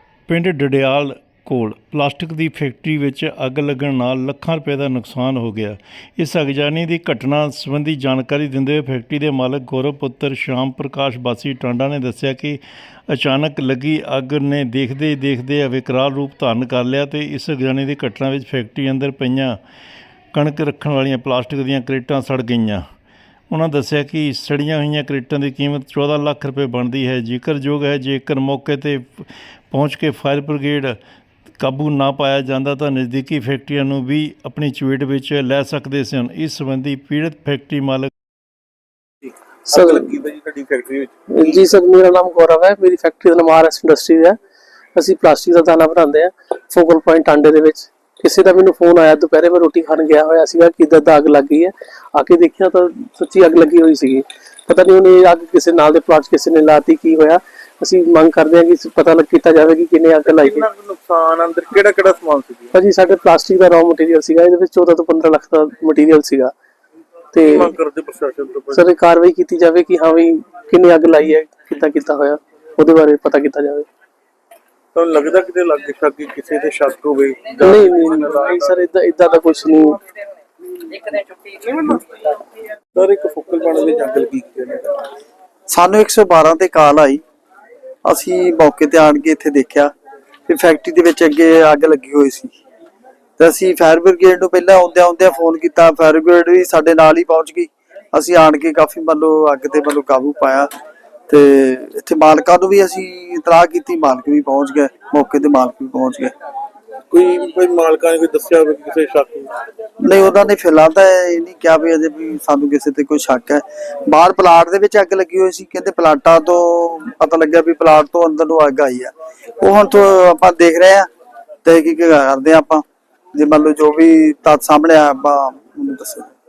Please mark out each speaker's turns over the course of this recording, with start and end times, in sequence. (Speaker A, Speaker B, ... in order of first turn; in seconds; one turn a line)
Speaker A: 0.3-19.6
Speaker A: 20.3-22.8
Speaker A: 23.5-31.0
Speaker A: 31.6-38.1
Speaker B: 39.2-41.6
Speaker C: 39.7-40.1
Speaker C: 41.3-44.4
Speaker C: 45.0-60.7
Speaker B: 60.2-62.7
Speaker C: 62.7-66.5
Speaker C: 67.3-67.7
Speaker B: 67.4-68.9
Speaker C: 68.7-73.9
Speaker B: 74.9-78.8
Speaker C: 77.6-80.0
Speaker B: 81.5-82.2
Speaker B: 83.0-85.0
Speaker D: 85.7-87.2
Speaker D: 88.0-89.9
Speaker D: 90.5-92.5
Speaker D: 93.4-100.7
Speaker D: 101.3-106.3
Speaker B: 107.1-109.5
Speaker D: 110.0-121.1
Speaker D: 121.6-122.8
Speaker D: 123.3-126.3